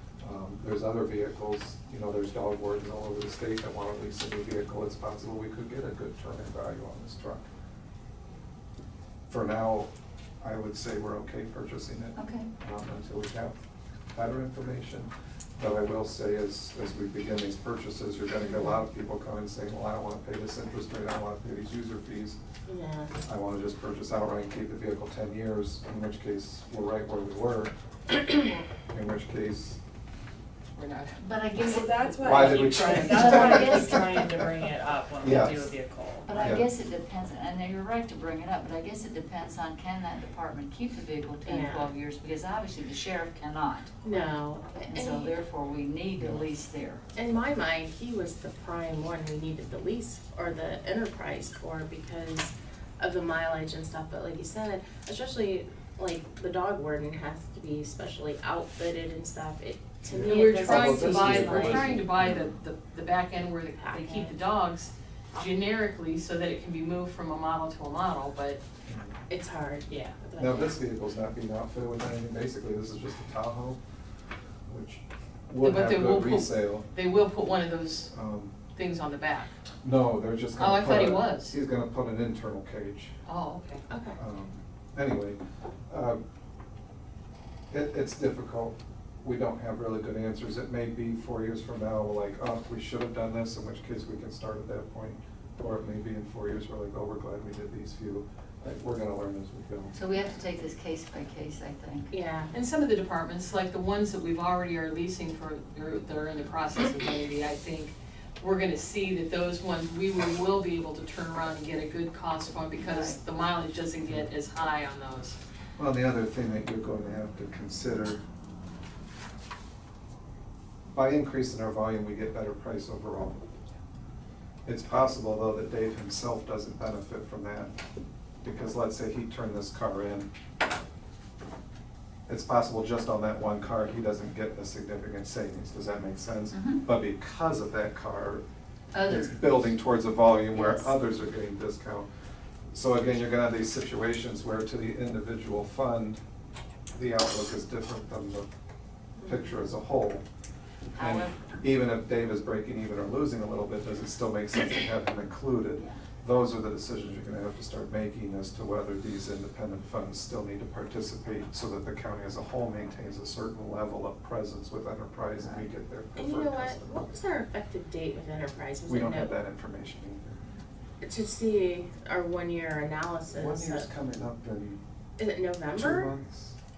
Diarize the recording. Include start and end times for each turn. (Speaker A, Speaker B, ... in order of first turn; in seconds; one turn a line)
Speaker A: 0.2-7.5
Speaker A: 9.3-13.6
Speaker B: 12.2-12.5
Speaker A: 14.1-22.4
Speaker C: 22.7-23.1
Speaker A: 23.2-29.8
Speaker D: 30.8-31.2
Speaker B: 31.2-34.4
Speaker E: 31.6-36.5
Speaker A: 32.2-34.3
Speaker A: 35.2-35.7
Speaker B: 36.2-43.9
Speaker A: 36.4-36.7
Speaker C: 41.4-41.9
Speaker C: 44.0-45.4
Speaker B: 44.7-47.0
Speaker A: 46.2-46.5
Speaker C: 47.1-61.9
Speaker A: 60.1-62.5
Speaker D: 60.2-68.6
Speaker E: 60.7-61.9
Speaker C: 63.8-64.3
Speaker A: 68.8-69.2
Speaker C: 69.3-70.5
Speaker E: 70.1-70.7
Speaker A: 70.4-73.8
Speaker A: 74.7-76.9
Speaker D: 75.6-78.1
Speaker A: 78.1-78.5
Speaker D: 78.7-79.5
Speaker A: 79.8-83.1
Speaker D: 80.6-81.5
Speaker D: 83.2-83.8
Speaker C: 83.9-84.2
Speaker A: 84.2-86.2
Speaker A: 87.7-99.9
Speaker B: 99.9-102.1
Speaker C: 102.1-102.5
Speaker D: 102.5-115.4
Speaker B: 112.8-113.2
Speaker A: 115.8-118.2
Speaker A: 120.9-123.4
Speaker A: 124.7-127.7
Speaker A: 128.4-130.3
Speaker A: 132.3-138.4
Speaker B: 136.5-136.8
Speaker B: 138.9-139.5
Speaker A: 139.0-142.1
Speaker B: 140.5-140.9
Speaker A: 142.7-146.2
Speaker A: 146.9-148.5
Speaker A: 149.2-150.2
Speaker B: 150.9-151.4
Speaker A: 151.0-167.2
Speaker B: 165.4-165.7
Speaker C: 166.1-169.3
Speaker A: 168.8-170.4
Speaker C: 171.0-173.9
Speaker A: 173.3-174.8
Speaker C: 175.2-176.1
Speaker A: 175.7-176.6